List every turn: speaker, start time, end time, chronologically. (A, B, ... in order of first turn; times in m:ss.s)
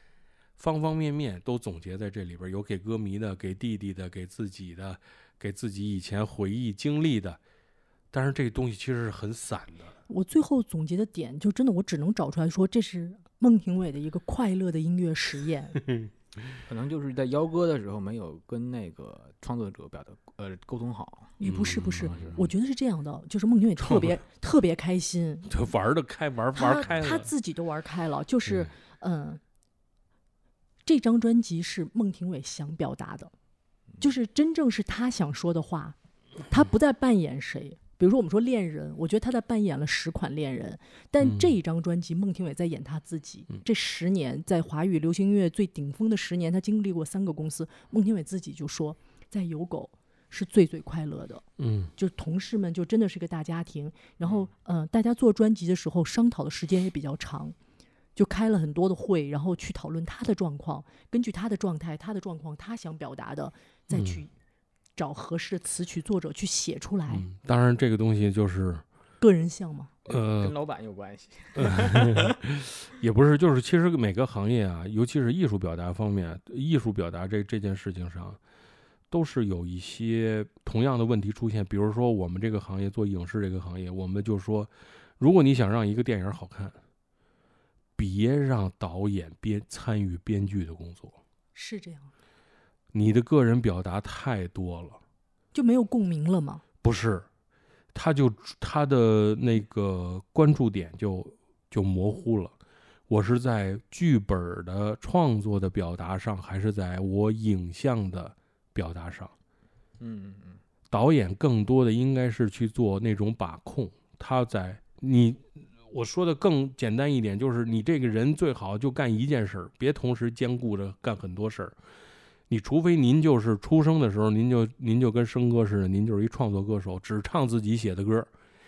0:00.6-0:07.4 A
0:08.1-0:09.9 A
0:10.1-0:15.8 B
0:16.7-0:21.4 C
0:21.4-0:25.5 B
0:21.4-0:22.4 A
0:22.1-0:22.4 C
0:23.8-0:24.2 A
0:25.5-0:27.3 A
0:26.6-0:29.4 B
0:28.5-0:28.7 A
0:30.8-0:33.3 B
0:34.0-0:36.0 B
0:36.5-0:57.6 B
0:41.2-0:41.5 A
0:51.6-0:51.9 A
0:58.2-1:04.3 B
1:03.9-1:04.2 A
1:05.0-1:07.2 B
1:07.1-1:08.8 A
1:09.2-1:09.9 B
1:10.1-1:10.6 A
1:10.2-1:12.4 C
1:11.6-1:18.4 A
1:19.1-1:26.8 A
1:28.0-1:31.2 A
1:31.5-1:32.1 B
1:32.9-1:35.0 A
1:35.5-1:36.6 B
1:36.8-1:37.3 A
1:37.9-1:42.5 A
1:43.1-1:49.3 A
1:50.0-1:50.6 C
1:50.9-2:01.8 A
2:02.5-2:08.3 A